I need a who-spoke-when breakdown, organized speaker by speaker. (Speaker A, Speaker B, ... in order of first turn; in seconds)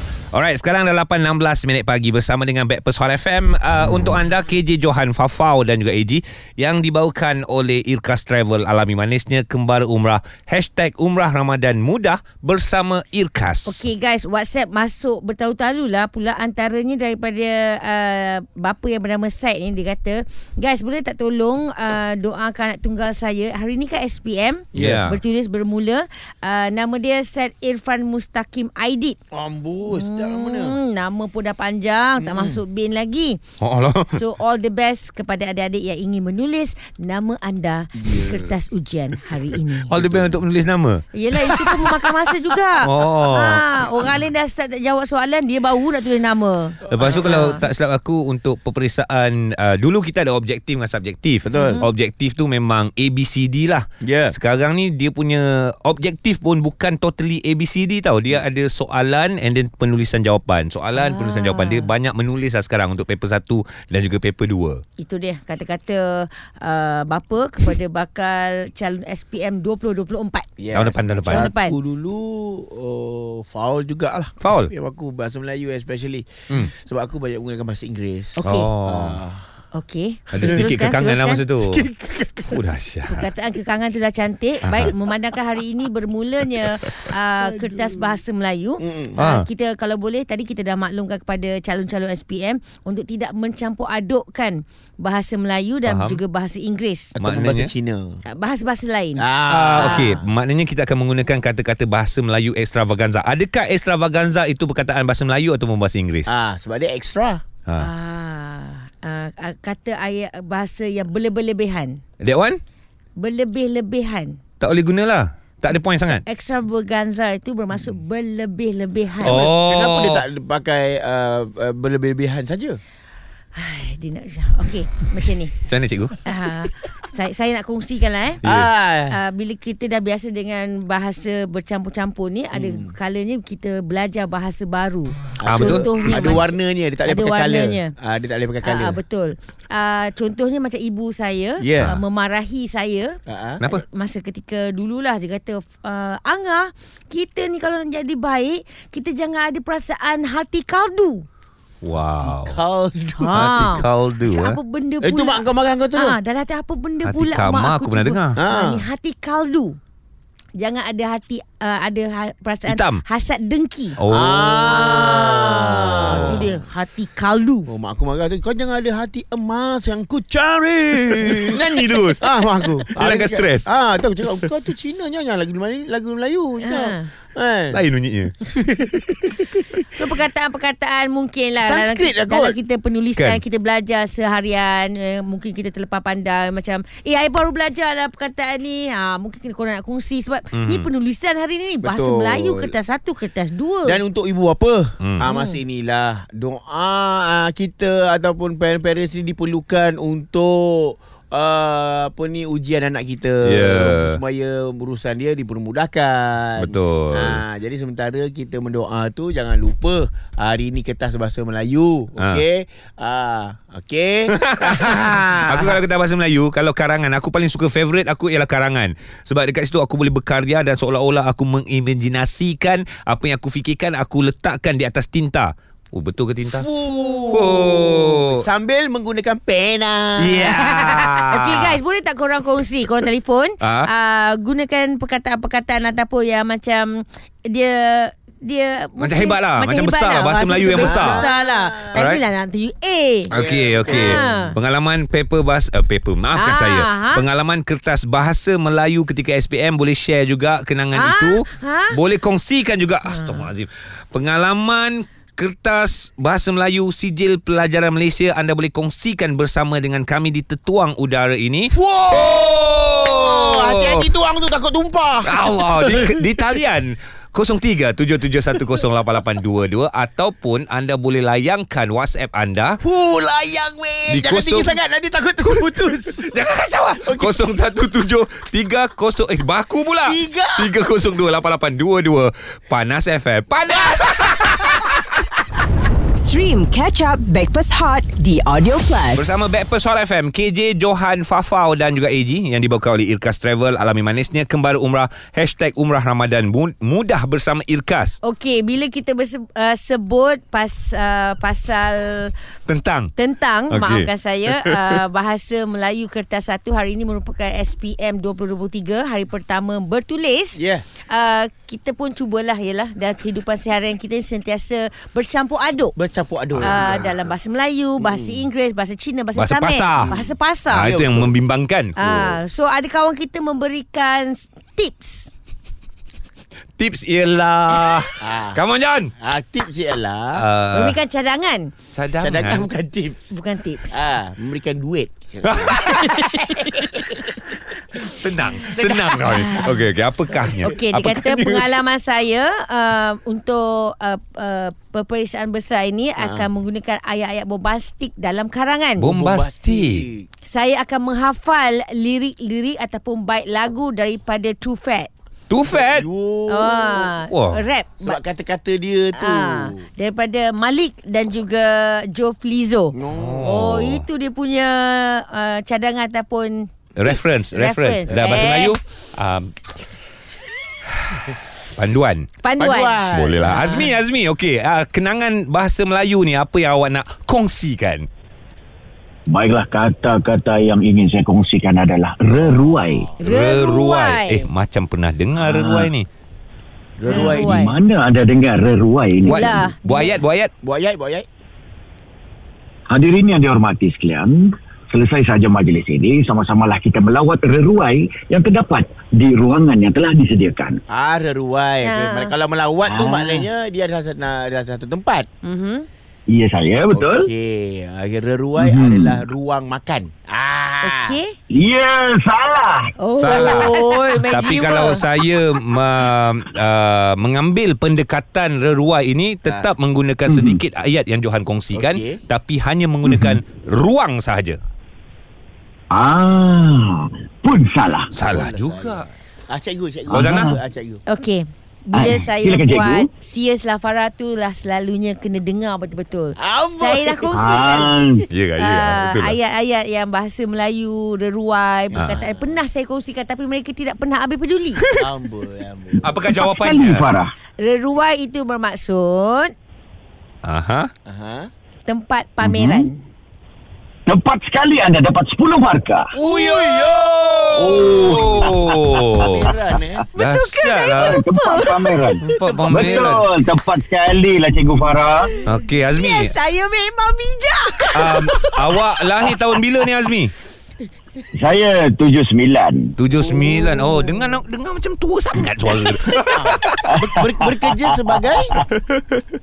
Speaker A: 0.3-13.8, 24.8-25.2, 33.6-34.1, 39.9-41.0, 42.8-43.6, 46.9-64.8, 70.7-71.4, 74.4-74.7, 78.4-79.2, 80.3-81.8, 82.5-83.3, 84.7-84.9, 89.2-89.4, 95.8-96.2, 97.2-97.7, 99.5-106.3, 112.2-112.6, 114.6-116.2, 119.2-120.2, 125.7-126.2, 128.4-128.7, 135.4-136.4, 151.8-152.6, 153.3-154.6, 157.0-158.4, 162.7-163.0, 164.0-165.0, 165.8-166.4, 171.5-172.2, 172.9-173.7, 177.7-178.3, 183.2-183.4, 190.5-190.9, 203.4-204.2, 206.6-207.4, 214.3-228.4, 230.2-231.8, 233.6-233.9, 239.0-241.2, 241.9-242.2, 243.3-264.1, 265.2-272.8, 274.1-274.7, 275.5-284.8, 289.1-298.2, 302.7-303.1, 303.7-305.0, 319.3-320.1, 320.7-322.4, 326.8-329.1, 330.3-331.0, 331.9-332.7, 335.4-336.1, 338.0-341.7, 349.0-350.0, 355.5-356.1, 357.3-357.6, 363.1-364.0, 367.0-369.5, 371.1-372.3, 373.1-378.1, 383.2-386.1, 389.2-390.5, 413.1-424.6, 428.1-429.1, 430.1-430.5, 438.3-439.4, 441.9-442.2, 446.0-447.1, 450.4-450.9, 456.1-459.4, 460.1-461.2, 462.2-463.2, 465.4-466.3, 467.9-470.3, 473.0-476.8
Speaker B: 13.7-29.2, 29.9-33.4, 34.1-39.9, 41.1-47.6, 51.5-51.9, 60.9-61.9, 65.0-70.5, 71.3-71.8, 78.4-78.7, 79.7-81.4, 83.1-97.1, 98.3-99.2, 99.8-100.1, 107.8-112.0, 113.2-114.4, 116.2-119.5, 123.5-125.5, 126.2-128.4, 129.1-136.5, 137.0-137.9, 138.6-143.2, 143.7-151.2, 153.1-159.8, 160.6-164.0, 164.6-167.7, 176.6-177.1, 179.9-194.0, 195.2-195.6, 231.3-243.3, 243.8-244.5, 246.3-247.2, 250.9-252.0, 253.1-253.5, 298.2-302.3, 303.1-315.9, 316.6-320.9, 322.0-325.3, 330.7-331.7, 333.3-334.0, 335.8-337.1, 339.2-339.8, 340.5-349.1, 350.4-355.1, 356.5-358.2, 359.1-368.8, 372.4-373.9, 383.2-384.5, 387.1-387.8, 389.2-390.1, 401.8-402.3, 405.4-405.9, 410.8-411.3, 413.0-415.0, 431.1-437.9, 438.6-444.9, 447.6-449.5, 451.9-453.0, 460.1-462.0, 465.9-468.6
Speaker C: 24.7-25.0, 29.3-30.8, 32.2-32.6, 37.9-38.5, 39.9-40.4, 47.0-47.5, 51.4-51.8, 54.0-54.3, 70.6-79.4, 81.6-82.6, 87.4-88.2, 88.8-89.2, 97.1-98.2, 99.2-100.2, 106.2-107.4, 119.2-122.8, 128.4-129.2, 132.5-132.9, 135.4-139.0, 141.6-142.0, 143.3-143.6, 152.2-153.3, 155.0-156.2, 158.4-158.8, 164.1-166.5, 167.7-171.6, 172.2-177.8, 178.6-179.5, 181.6-182.6, 191.8-192.7, 193.8-215.8, 226.5-230.9, 240.8-242.1, 243.3-244.5, 261.7-266.3, 272.8-276.3, 277.1-277.5, 280.0-280.7, 310.6-310.9, 315.9-317.3, 318.0-318.5, 320.0-321.3, 328.2-328.6, 329.2-330.4, 332.2-333.3, 333.9-337.5, 338.6-339.5, 346.2-346.5, 349.1-350.3, 355.7-357.1, 358.0-359.9, 362.9-363.5, 368.1-368.5, 372.6-373.8, 382.5-383.1, 387.0-387.7, 390.6-391.2, 400.9-405.3, 406.9-411.2, 421.7-422.2, 428.3-431.0, 436.4-437.9, 441.9-442.6, 444.9-446.2, 451.1-451.5, 456.2-457.0, 457.7-458.5, 459.2-460.0, 462.6-462.9, 473.2-474.0, 476.3-478.6
Speaker D: 286.1-289.2
Speaker E: 379.3-383.1, 385.4-385.9, 387.0-389.7, 392.9-400.8, 402.8-403.5, 406.3-407.3, 408.6-409.2, 411.5-413.4, 420.3-420.6, 423.0-423.4, 425.9-428.1, 430.1-430.6, 431.9-433.1, 437.3-438.3, 446.3-447.3, 452.4-452.8, 454.1-456.1, 457.5-459.4, 460.9-465.3, 471.3-472.9, 476.9-478.6